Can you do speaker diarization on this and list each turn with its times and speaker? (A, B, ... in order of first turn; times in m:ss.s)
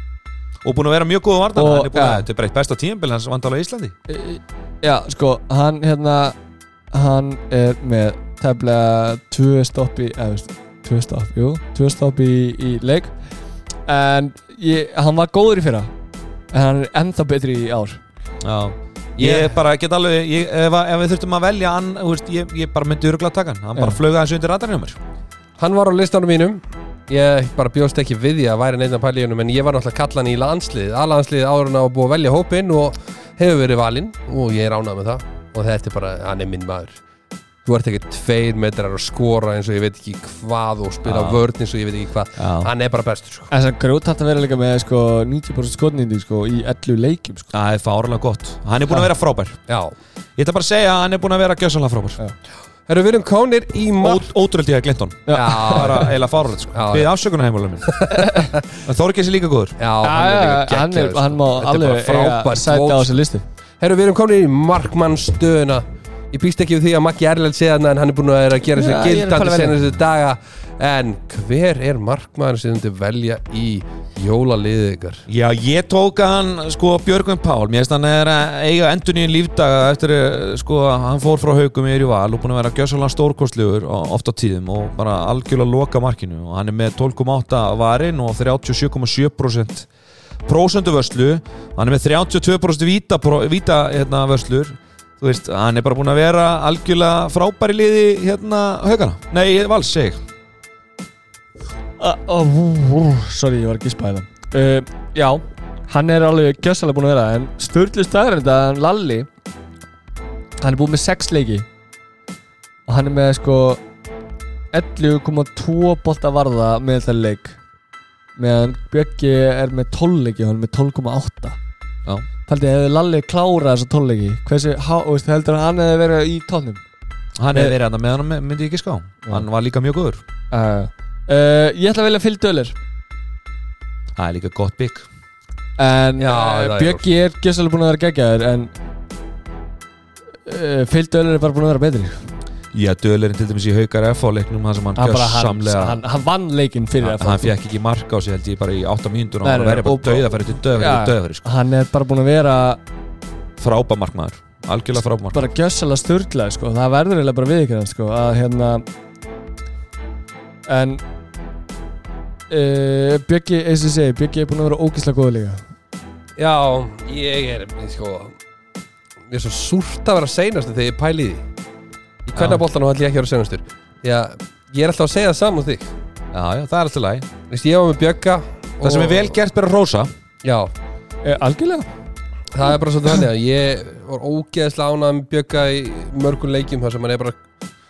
0:00.6-0:03.9 A
0:01.5-0:02.2 B
0:04.1-0:06.4 B
0:06.9-0:13.1 B
0:13.9-0:15.9 B
0:16.5-0:18.0 B
0:18.4-0:25.0 A
0:19.2-0:19.6 C
0:25.6-0:37.0 C
0:37.6-0:43.5 C
0:41.0-0:41.4 A
0:42.4-0:42.7 A
0:43.5-0:47.5 B
0:47.5-0:49.6 A
0:49.7-0:49.9 C
0:50.4-0:52.2 A
0:52.9-0:54.3 C
0:54.0-0:59.8 A
0:55.2-0:56.0 B
0:55.3-0:57.1 C
0:57.9-0:58.6 C
0:58.2-0:58.4 B
0:59.8-1:03.2 C
1:00.0-1:03.4 B
1:03.8-1:15.2 C
1:08.8-1:09.7 B
1:15.3-1:29.9 A
1:30.4-1:40.2 A
1:42.0-1:49.3 B
1:50.6-1:51.6 B
1:52.9-1:53.8 B
1:54.7-1:57.6 B
1:58.4-2:01.6 B
2:02.4-2:06.8 B
2:07.4-2:10.2 A
2:10.5-2:12.7 B
2:14.2-2:15.0 A
2:15.8-2:18.7 B
2:16.2-2:17.0 C
2:20.4-2:22.3 B
2:22.7-2:26.0 A
2:25.0-2:27.5 B
2:27.0-2:31.5 A
2:29.4-2:32.8 B
2:33.6-2:35.4 A
2:35.3-2:38.8 B
2:40.7-2:41.0 B
2:42.5-2:45.6 B
2:46.4-2:48.4 C
2:49.3-2:51.4 C
2:52.2-2:55.9 C
2:52.3-2:52.6 A
2:56.3-2:57.2 A
2:57.5-2:59.4 C
2:58.8-3:00.1 A
3:00.4-3:00.7 C
3:01.2-3:01.9 B
3:02.5-3:07.4 C